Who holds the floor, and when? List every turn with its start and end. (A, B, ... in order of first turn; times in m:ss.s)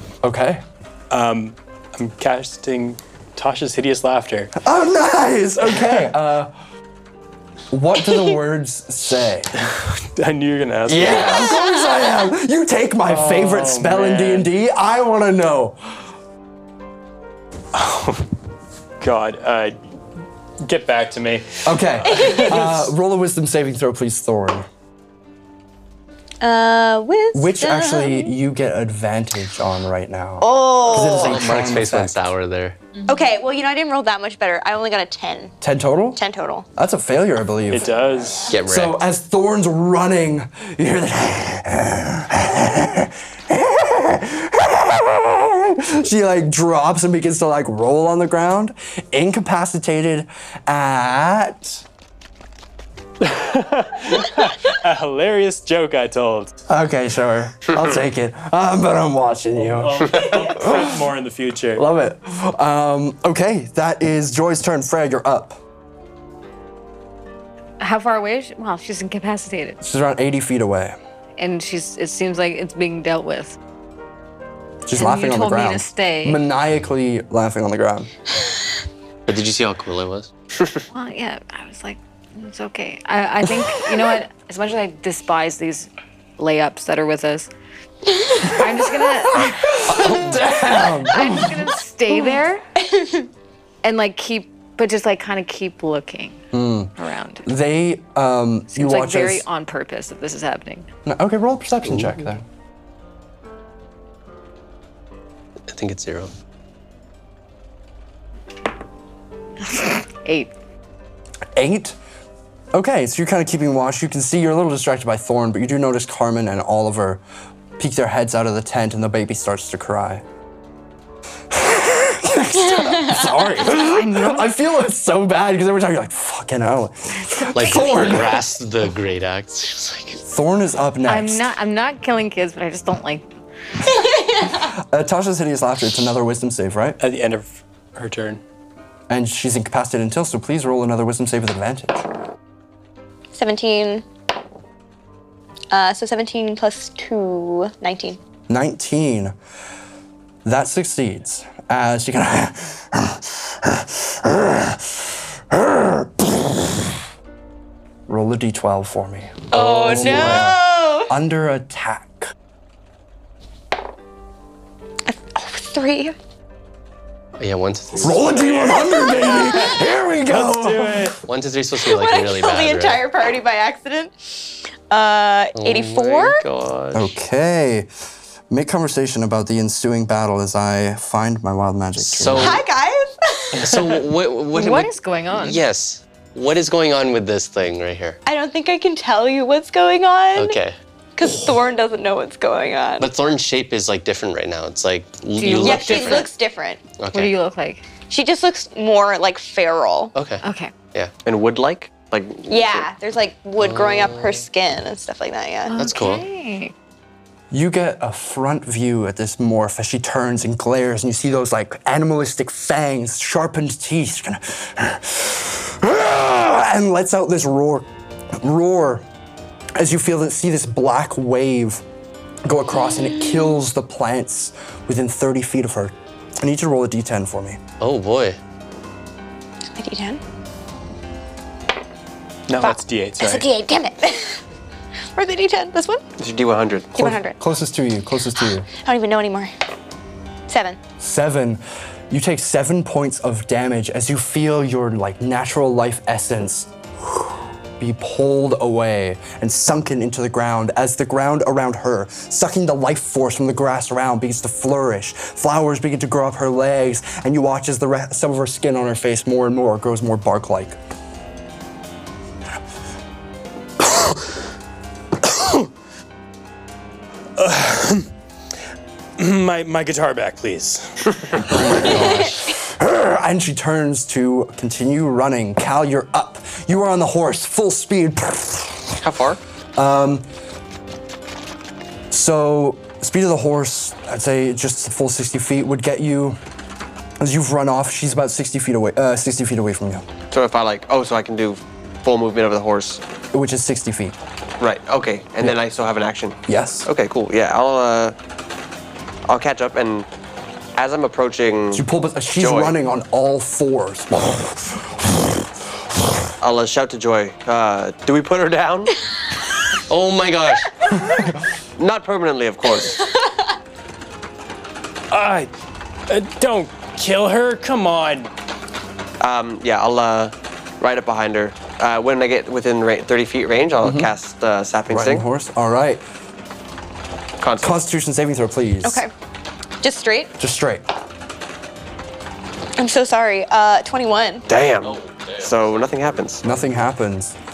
0:00.2-0:00.6 A
0:01.1-0:04.5 B
0:04.6-0:06.5 A
0:07.7-0:09.5 A
0:09.6-0:11.6 B
0:10.9-0:16.0 A
0:13.0-0:14.5 B
0:17.7-0:18.3 B
0:19.0-0:19.8 B
0:20.6-0:22.9 B
0:21.6-0:24.6 A
0:22.1-0:22.4 C
0:26.4-0:28.4 C
0:27.3-0:32.3 A
0:30.4-0:31.4 C
0:30.9-0:32.8 D
0:33.1-0:35.6 C
0:35.6-0:36.2 A
0:36.1-0:36.6 C
0:36.7-0:37.9 A
0:37.7-0:38.5 B
0:38.5-0:51.8 A
0:38.5-0:39.0 D
0:53.2-0:56.5 B
0:56.7-1:01.0 A
0:59.6-1:01.8 B
1:01.8-1:05.6 A
1:07.8-1:09.8 E
1:09.8-1:11.0 A
1:11.4-1:13.6 E
1:14.8-1:18.1 A
1:14.9-1:16.4 E
1:19.3-1:20.3 D
1:20.9-1:27.5 E
1:28.4-1:29.9 E
1:29.3-1:31.7 A
1:31.1-1:32.6 E
1:32.8-1:33.2 C
1:33.8-1:36.4 E
1:36.5-1:39.4 A
1:37.0-1:37.4 E
1:38.7-1:40.9 E
1:41.0-1:42.4 A
1:45.7-1:46.3 D
1:49.7-1:50.5 E
1:51.5-1:52.0 A
1:52.7-1:57.2 A
1:57.8-2:00.2 A
2:01.5-2:08.4 A
2:03.6-2:04.5 E
2:07.5-2:10.2 D
2:10.2-2:11.5 A
2:11.0-2:13.2 E
2:14.0-2:14.5 C
2:14.5-2:17.0 A
2:17.0-2:18.4 B
2:19.1-2:22.0 A
2:23.3-2:24.0 C
2:25.7-2:28.2 C
2:28.5-2:29.3 A
2:30.4-2:36.9 A
2:38.1-2:42.3 A
2:39.5-2:41.1 C
2:39.5-2:40.4 D
2:45.0-2:46.1 C
2:47.4-2:48.7 D
2:48.0-2:51.1 A
2:48.2-2:51.2 B
2:51.2-2:53.0 D
2:51.8-2:56.4 C
2:55.6-2:57.2 D
2:56.9-2:57.9 A
2:58.5-3:02.6 A
3:02.0-3:02.6 D
3:02.3-3:03.6 C
3:03.5-3:08.2 D
3:04.5-3:05.6 E
3:08.2-3:10.6 C
3:10.3-3:10.7 D
3:11.2-3:13.1 C
3:13.0-3:16.3 D
3:15.4-3:16.3 E
3:15.6-3:16.8 C
3:17.0-3:17.3 D
3:17.1-3:17.8 E
3:18.1-3:20.1 C
3:20.1-3:21.1 D
3:20.4-3:20.7 E
3:21.2-3:22.9 F
3:22.5-3:25.8 C
3:23.6-3:24.4 D
3:25.7-3:26.7 E
3:25.8-3:26.2 D
3:27.5-3:39.0 A
3:39.8-3:41.8 A
3:42.4-3:47.6 A
3:47.8-3:48.4 D
3:49.7-3:50.2 C
3:52.5-3:53.5 B
3:52.6-3:54.4 C
3:55.1-3:56.0 C
3:56.2-3:56.9 F
3:56.9-3:57.4 C
3:56.9-3:58.7 A
3:58.7-3:59.5 C
4:00.5-4:00.8 C
4:01.0-4:20.8 A
4:25.2-4:25.6 B
4:27.4-4:28.1 B
4:29.2-4:31.9 B
4:31.5-4:39.0 A
4:39.0-4:39.4 F
4:39.8-4:40.3 A
4:42.1-4:46.4 A
4:47.2-4:50.0 A
4:50.3-4:53.0 F
4:53.3-4:54.2 A
4:54.6-4:58.2 F
4:56.5-4:56.9 A
4:59.3-5:00.1 F
5:00.8-5:01.8 F
5:01.7-5:06.2 A
5:02.4-5:02.7 F
5:06.4-5:08.9 F
5:09.9-5:10.8 D
5:11.8-5:13.0 F
5:15.1-5:15.5 B
5:16.1-5:18.3 B
5:19.2-5:25.2 F
5:23.8-5:24.1 A
5:24.9-5:26.0 A
5:27.4-5:27.8 F
5:27.6-5:29.0 A
5:28.8-5:29.1 C
5:29.8-5:30.3 C
5:30.4-5:30.9 A
5:32.8-5:34.4 C
5:34.5-5:36.4 F
5:36.4-5:37.4 A